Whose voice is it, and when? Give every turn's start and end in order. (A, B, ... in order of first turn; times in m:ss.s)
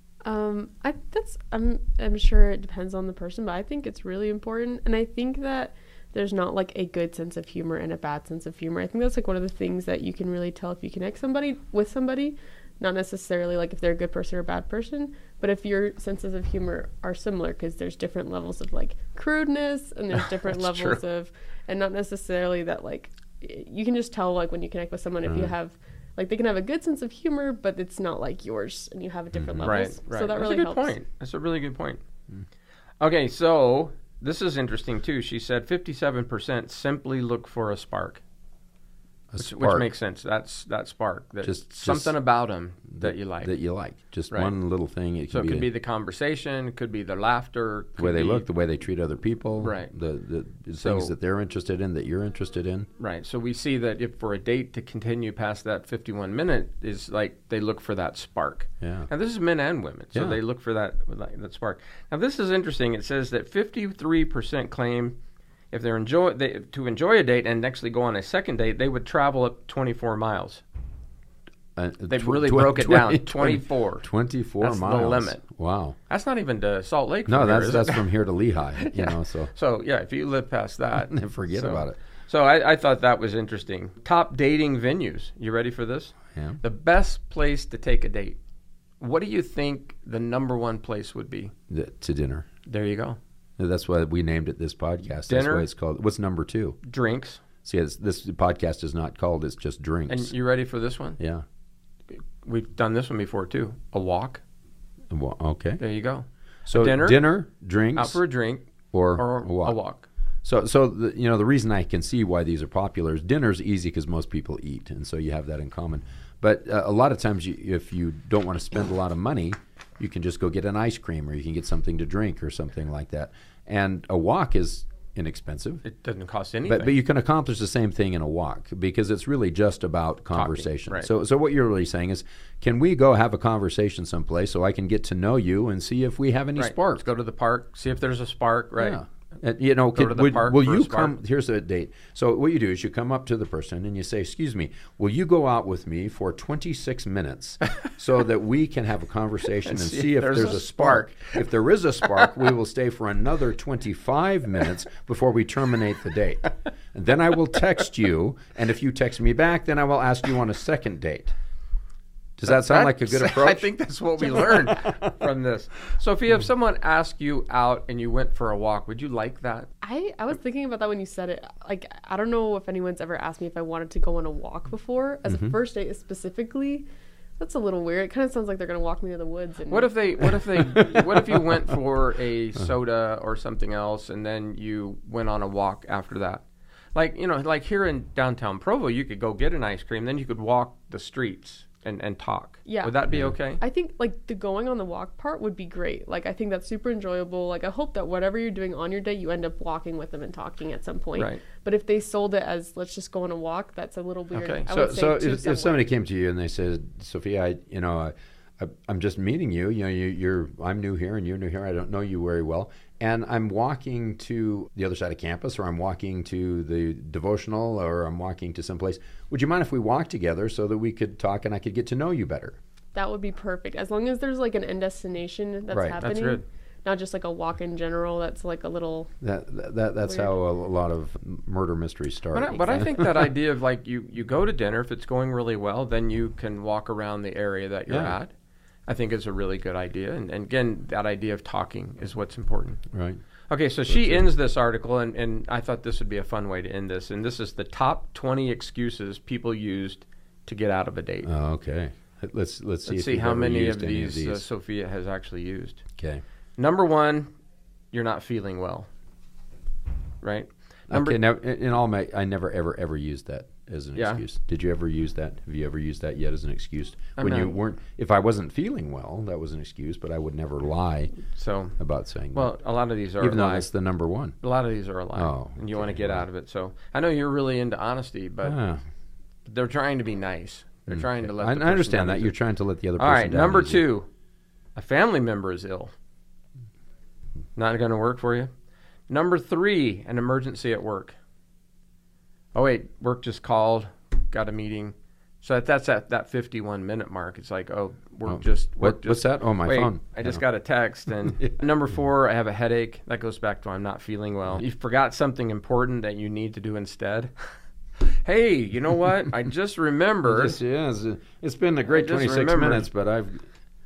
0:00.2-0:31.0 A
0:20.2-0:21.0 B
0:25.3-0:25.5 C
0:29.3-0:29.8 C
0:29.6-0:32.0 B
0:33.0-0:38.2 B
0:39.3-0:39.9 C
0:39.4-0:43.5 B
0:41.4-0:42.2 C
0:42.9-0:45.7 C
0:45.3-0:48.4 B
0:48.0-0:52.9 C
0:49.6-0:49.9 B
0:50.8-0:51.1 B
0:53.0-1:05.2 B
0:58.8-0:59.1 C
1:00.1-1:00.4 C
1:05.7-1:10.6 B
1:11.8-1:16.0 C
1:12.1-1:14.1 B
1:14.6-1:15.4 B
1:16.1-1:18.1 B
1:17.3-1:19.5 C
1:18.8-1:28.4 B
1:21.0-1:22.0 C
1:26.4-1:26.6 C
1:29.0-1:31.5 B
1:31.7-1:32.5 C
1:32.7-1:33.2 B
1:33.6-1:36.8 C
1:35.3-1:35.7 B
1:36.8-1:37.4 B
1:37.6-1:40.3 C
1:40.1-1:41.2 B
1:41.2-1:41.4 C
1:42.1-1:44.4 B
1:45.1-1:45.8 C
1:45.8-1:47.3 B
1:46.7-1:48.2 C
1:48.0-1:50.1 B
1:48.9-1:49.8 C
1:50.4-2:05.8 C
2:05.8-2:07.0 B
2:06.7-2:17.0 C
2:10.3-2:11.1 B
2:16.6-2:19.0 B
2:18.8-2:41.3 C
2:20.0-2:21.2 B
2:29.6-2:31.4 B
2:42.4-2:43.7 C
2:42.5-2:49.7 B
2:44.3-2:45.0 C
2:49.8-2:56.9 A
2:55.3-2:55.5 C
2:57.4-2:59.9 A
2:59.7-3:06.4 B
3:00.5-3:01.6 C
3:07.0-3:13.6 B
3:12.7-3:13.0 A
3:13.6-3:25.8 A
3:24.3-3:24.6 B
3:24.7-3:42.6 C
3:43.0-3:49.1 A
3:45.7-3:46.0 C
3:46.0-3:46.4 B
3:49.2-3:53.3 C
3:50.1-3:50.3 A
3:52.3-3:58.3 B
3:57.9-3:58.2 C
3:58.9-4:02.8 B
4:02.9-4:03.2 C
4:03.5-4:11.3 B
4:03.9-4:04.3 C
4:11.2-4:14.4 C
4:12.9-4:15.8 B
4:16.0-4:16.2 C
4:16.6-4:17.3 B
4:17.9-4:18.9 B
4:20.2-4:21.2 B
4:20.9-4:31.2 C
4:24.0-4:24.2 B
4:27.2-4:27.6 B
4:31.2-4:31.8 B
4:31.8-4:32.5 C
4:32.3-4:33.7 B
4:33.2-4:34.4 C
4:34.4-4:38.6 B
4:35.2-4:36.3 C
4:38.4-4:38.8 C
4:39.5-4:42.4 B
4:40.9-4:43.8 C
4:43.0-4:44.1 B
4:44.8-4:45.9 B
4:47.6-4:48.5 B
4:49.1-4:51.2 B
4:52.5-5:07.3 B
4:58.3-5:00.4 C
5:01.2-5:01.5 C
5:08.0-5:10.6 B
5:10.2-5:13.4 C
5:11.9-5:12.9 B